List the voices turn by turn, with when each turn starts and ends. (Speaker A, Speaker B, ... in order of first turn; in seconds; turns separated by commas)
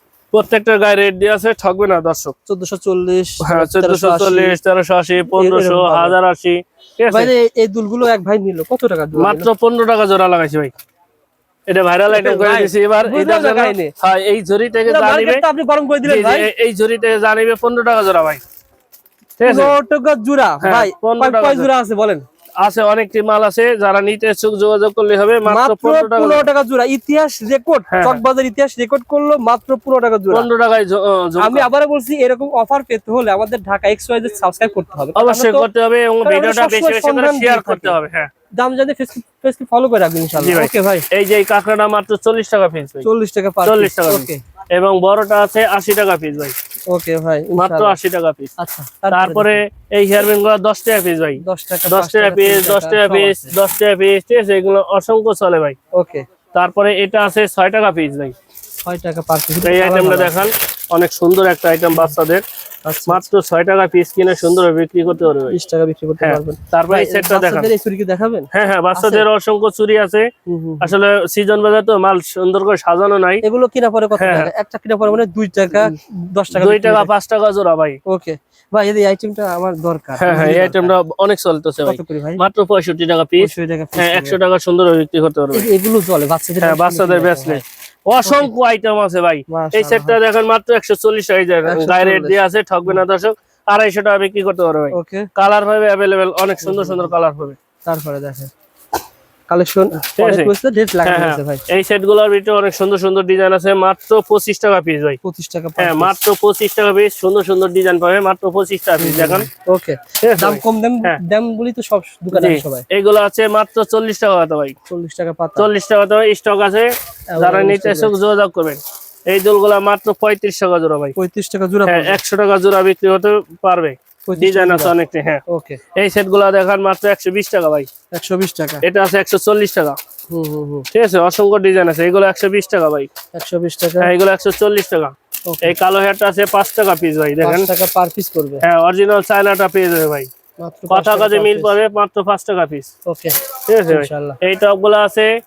Speaker A: 0.3-2.3, Speaker B: 2.5-4.6, Speaker A: 3.4-7.3, Speaker B: 5.2-6.2, Speaker B: 7.1-9.5, Speaker A: 9.2-10.7, Speaker A: 11.7-15.4, Speaker B: 12.1-13.9, Speaker B: 14.8-16.5, Speaker A: 16.0-18.4, Speaker A: 19.4-19.7, Speaker B: 19.4-22.2, Speaker A: 20.6-21.7, Speaker A: 22.6-26.4, Speaker B: 25.4-30.5, Speaker A: 27.9-28.2, Speaker A: 30.3-31.6, Speaker B: 31.4-35.7, Speaker A: 35.1-38.3, Speaker B: 36.2-38.0, Speaker B: 38.5-41.0, Speaker A: 40.4-43.1, Speaker B: 43.0-44.4, Speaker A: 43.6-46.5, Speaker B: 46.9-48.0, Speaker A: 47.5-48.5, Speaker B: 48.6-49.6, Speaker A: 49.1-55.8, Speaker B: 51.4-53.5, Speaker B: 55.9-56.2, Speaker A: 56.5-58.3, Speaker B: 58.8-60.4, Speaker A: 59.6-62.4, Speaker B: 62.8-63.2, Speaker A: 63.1-65.5, Speaker B: 65.5-69.3, Speaker A: 66.2-67.7, Speaker A: 68.5-70.3, Speaker B: 70.5-70.9, Speaker A: 70.8-73.4, Speaker B: 73.4-77.1, Speaker A: 74.2-74.5, Speaker A: 76.5-78.0, Speaker B: 78.1-80.9, Speaker A: 80.2-85.7, Speaker B: 81.8-82.4, Speaker B: 83.4-84.4, Speaker B: 85.5-87.6, Speaker A: 86.6-97.6, Speaker B: 88.2-88.5, Speaker B: 89.5-90.2, Speaker B: 91.6-93.0, Speaker B: 94.9-95.3, Speaker B: 96.6-97.1, Speaker B: 97.8-98.5, Speaker B: 99.5-101.6, Speaker A: 100.1-100.5, Speaker A: 101.0-105.2, Speaker B: 105.2-106.2, Speaker A: 105.8-109.5, Speaker B: 109.0-112.8, Speaker A: 110.2-111.2, Speaker A: 112.3-114.8, Speaker B: 114.9-115.7, Speaker A: 115.6-121.2, Speaker B: 117.3-118.1, Speaker B: 121.2-122.2, Speaker A: 121.8-125.4, Speaker B: 124.3-124.9, Speaker B: 125.5-125.8, Speaker A: 126.0-127.9, Speaker B: 128.1-128.8, Speaker A: 128.8-130.0, Speaker B: 130.3-130.8, Speaker A: 130.9-133.1, Speaker B: 133.3-134.1, Speaker A: 134.0-137.7, Speaker B: 135.5-135.8, Speaker B: 137.4-138.6, Speaker A: 138.6-140.3, Speaker B: 140.6-141.8, Speaker A: 140.9-142.9, Speaker B: 143.1-143.3, Speaker A: 143.7-145.3, Speaker B: 143.9-144.4